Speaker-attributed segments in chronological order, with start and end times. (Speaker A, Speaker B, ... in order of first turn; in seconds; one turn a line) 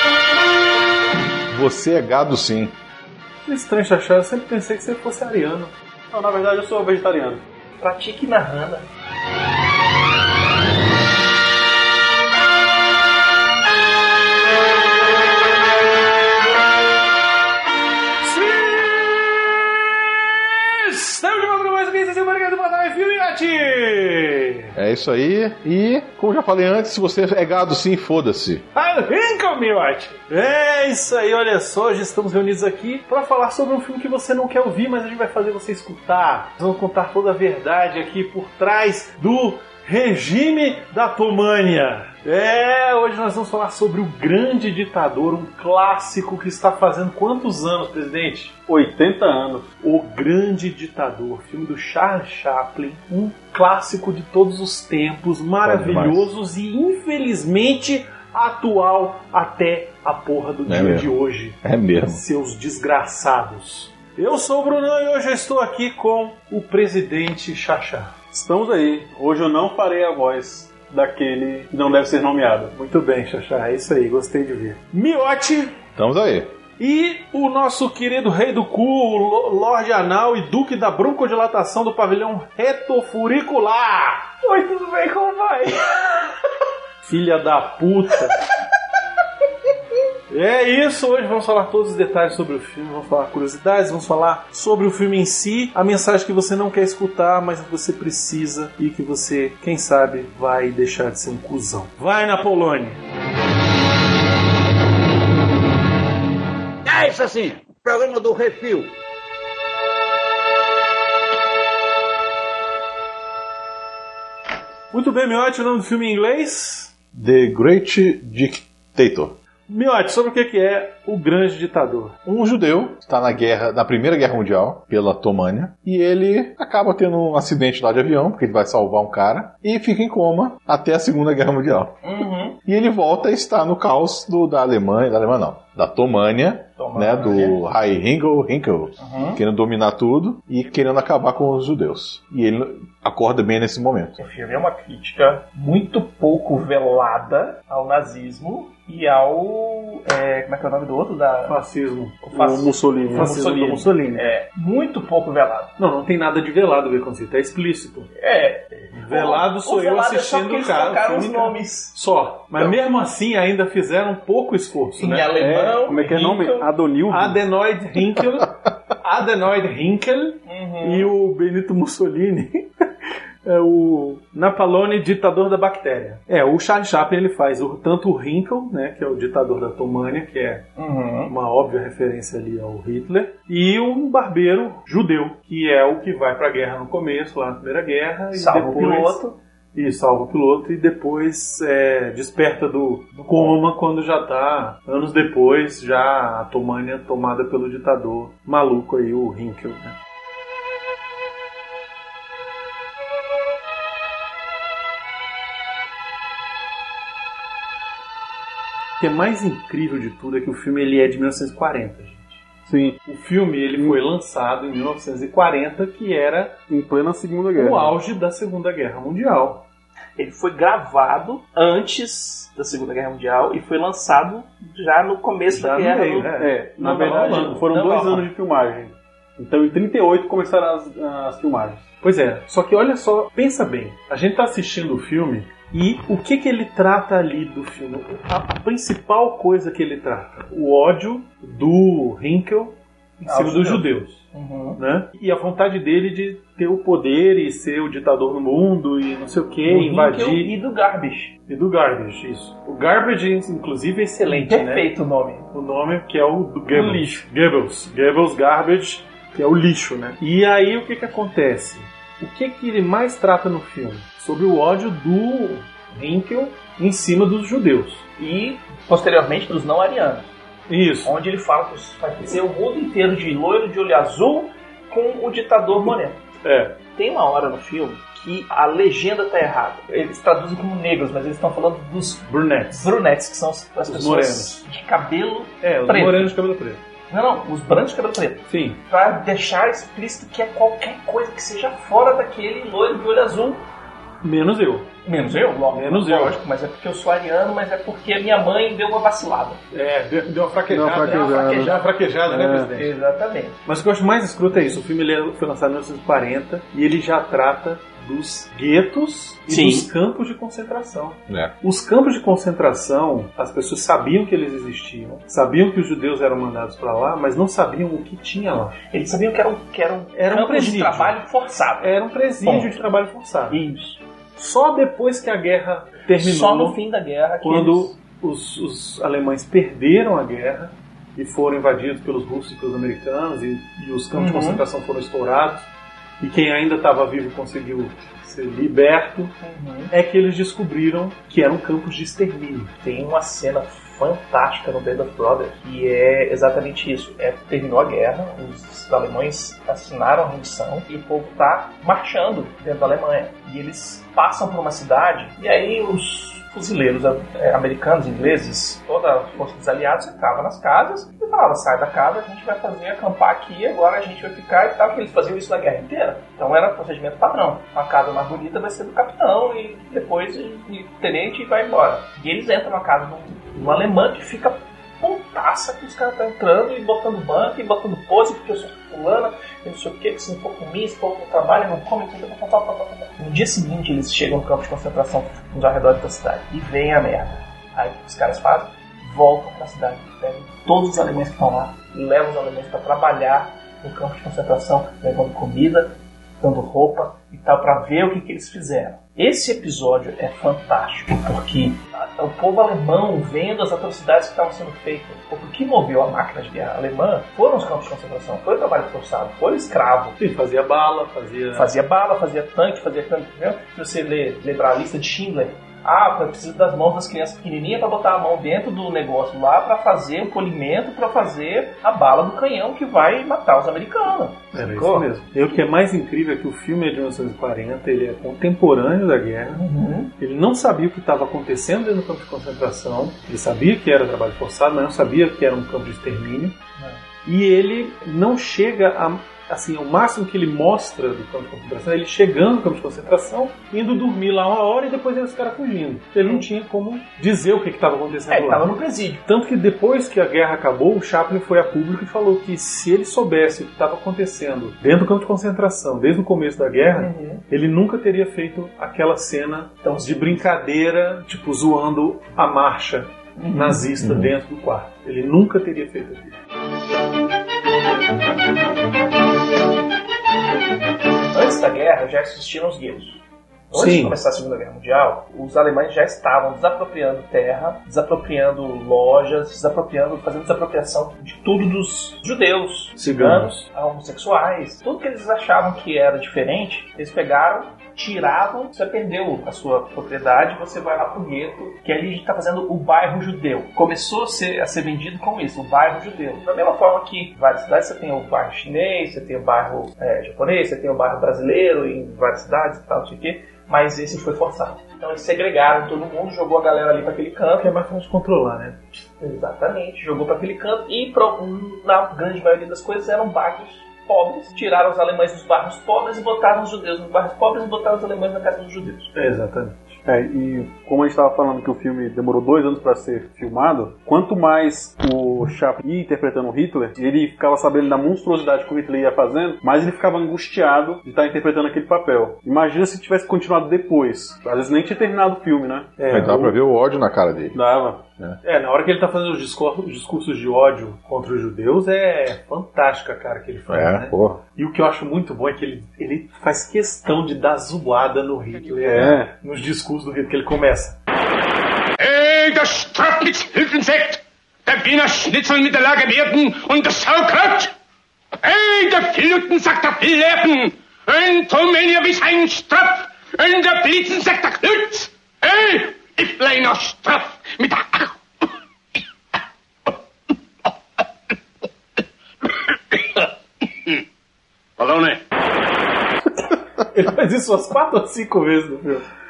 Speaker A: 1.5-2.7
Speaker B: 3.5-5.7
Speaker C: 6.1-7.4
Speaker D: 7.8-8.9
Speaker B: 18.2-24.7
Speaker A: 24.7-28.6
Speaker B: 28.7-48.5
Speaker C: 48.7-49.7
Speaker B: 49.8-68.2
Speaker A: 55.6-56.3
Speaker A: 60.6-62.2
Speaker C: 68.3-72.7
Speaker B: 72.7-75.8
Speaker A: 76.0-76.5
Speaker B: 76.8-84.3
Speaker D: 84.4-86.3
Speaker B: 87.0-88.3
Speaker B: 90.3-103.0
Speaker E: 106.8-108.9
Speaker B: 114.9-116.9
Speaker A: 117.1-119.3
Speaker B: 119.7-122.2
Speaker A: 122.2-131.9
Speaker D: 132.0-132.6
Speaker A: 132.6-144.2
Speaker D: 136.8-137.6
Speaker D: 139.0-139.4
Speaker D: 144.2-151.6
Speaker B: 151.5-154.3
Speaker D: 152.2-155.7
Speaker C: 152.3-153.5
Speaker B: 155.8-158.1
Speaker D: 158.2-161.9
Speaker B: 158.9-165.5
Speaker D: 165.0-166.7
Speaker C: 165.4-167.4
Speaker B: 167.1-172.7
Speaker D: 170.4-171.1
Speaker B: 173.4-180.7
Speaker D: 180.8-181.3
Speaker B: 181.3-199.9
Speaker D: 188.3-189.3
Speaker D: 193.1-193.6
Speaker B: 209.0-212.4
Speaker C: 212.7-213.0
Speaker B: 213.0-216.6
Speaker C: 216.7-217.9
Speaker B: 217.6-219.6
Speaker D: 220.2-226.3
Speaker B: 225.5-227.7
Speaker C: 226.4-231.8
Speaker D: 227.7-228.2
Speaker B: 232.0-244.2
Speaker D: 243.2-244.8
Speaker B: 244.8-250.5
Speaker D: 249.7-251.3
Speaker B: 251.5-254.9
Speaker D: 254.3-255.5
Speaker B: 255.5-268.1
Speaker D: 268.2-270.3
Speaker B: 270.7-271.1
Speaker D: 271.0-276.2
Speaker B: 275.8-276.8
Speaker D: 276.9-286.4
Speaker B: 282.3-282.9
Speaker B: 283.9-284.6
Speaker B: 285.6-286.8
Speaker D: 287.1-293.6
Speaker B: 288.5-288.8
Speaker B: 294.2-294.9
Speaker D: 295.0-299.6
Speaker B: 295.7-296.4
Speaker B: 299.7-302.9
Speaker C: 300.7-301.7
Speaker D: 301.0-301.8
Speaker C: 302.3-302.7
Speaker D: 302.7-303.6
Speaker B: 303.6-318.8
Speaker D: 309.5-309.9
Speaker A: 311.3-311.5
Speaker D: 318.9-321.9
Speaker B: 320.1-321.2
Speaker B: 321.8-323.6
Speaker D: 322.4-322.7
Speaker D: 323.5-324.0
Speaker B: 324.4-326.8
Speaker D: 326.2-327.9
Speaker B: 327.4-335.7
Speaker D: 334.1-334.6
Speaker B: 336.2-339.3
Speaker D: 339.4-339.9
Speaker B: 339.9-342.7
Speaker D: 342.8-410.2
Speaker B: 410.2-411.7
Speaker D: 411.5-425.1
Speaker B: 424.5-429.6
Speaker D: 429.5-430.1
Speaker B: 430.2-436.6
Speaker B: 437.2-448.7
Speaker D: 448.3-449.2
Speaker B: 449.2-466.3
Speaker D: 456.9-457.4
Speaker D: 459.8-460.4
Speaker D: 463.4-463.8
Speaker D: 471.3-507.7
Speaker B: 473.7-474.2
Speaker B: 483.0-483.6
Speaker B: 507.6-508.8
Speaker D: 508.9-519.1
Speaker B: 519.1-520.0
Speaker C: 520.0-536.5
Speaker B: 536.0-536.5
Speaker A: 536.1-537.6
Speaker C: 537.5-538.0
Speaker B: 538.4-551.0
Speaker A: 543.7-544.4
Speaker C: 548.8-549.3
Speaker A: 548.9-549.2
Speaker F: 552.0-557.7
Speaker F: 558.4-568.1
Speaker F: 574.8-575.2
Speaker B: 576.9-579.0